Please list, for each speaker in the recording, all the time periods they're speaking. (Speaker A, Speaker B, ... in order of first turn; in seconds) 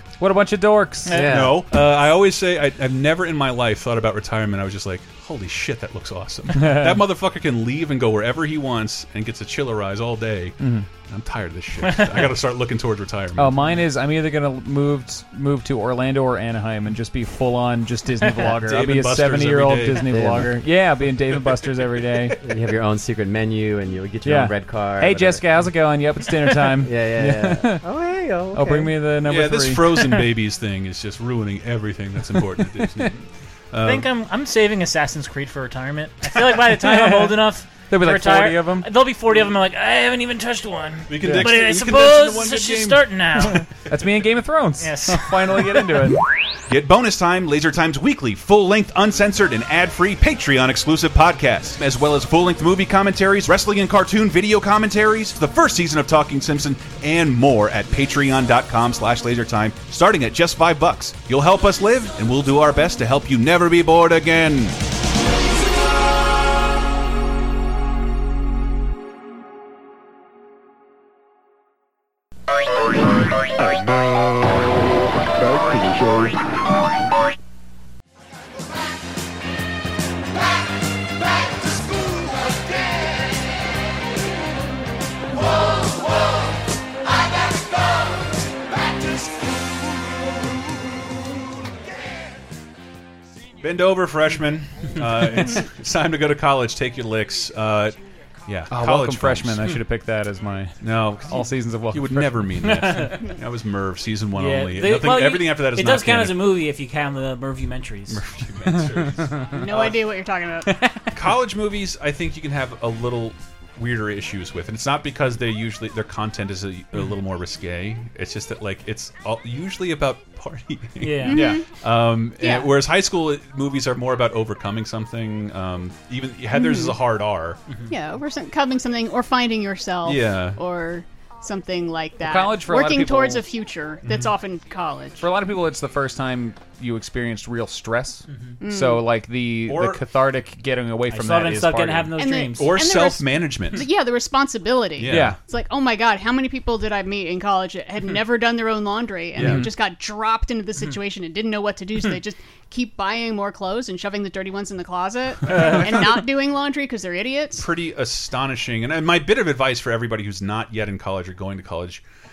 Speaker A: 0.2-1.3, 6.5-7.0, 10.6-10.9, 13.4-22.4, 24.2-27.9, 28.5-30.3, 32.6-33.1, 36.5-37.4, 37.9-38.9, 41.2-41.6, 43.9-46.2, 98.7-102.7, 108.7-109.6, 121.3-121.6, 132.2-133.4, 135.2-142.1, 145.1-145.4, 149.4-149.7
Speaker B: 1.1-1.5, 33.8-43.7, 44.8-45.8, 102.7-103.2, 104.4-108.2, 121.0-121.6, 127.7-127.9, 138.3-138.6, 141.1-142.8
Speaker C: 1.1-1.6, 20.1-20.7, 22.4-25.6, 26.8-28.9
Speaker D: 1.3-13.6, 18.6-20.1, 29.2-34.1, 41.1-43.0, 46.7-64.8, 93.6-99.7, 100.8-106.4, 108.1-110.0, 111.1-127.6, 130.1-130.6, 139.7-140.0, 142.6-143.8, 145.0-145.3, 149.4-149.7, 157.6-162.0
Speaker E: 109.5-110.7, 121.2-121.7, 122.4-122.7, 126.5-127.0, 127.9-135.2, 138.6-139.0, 142.2-157.7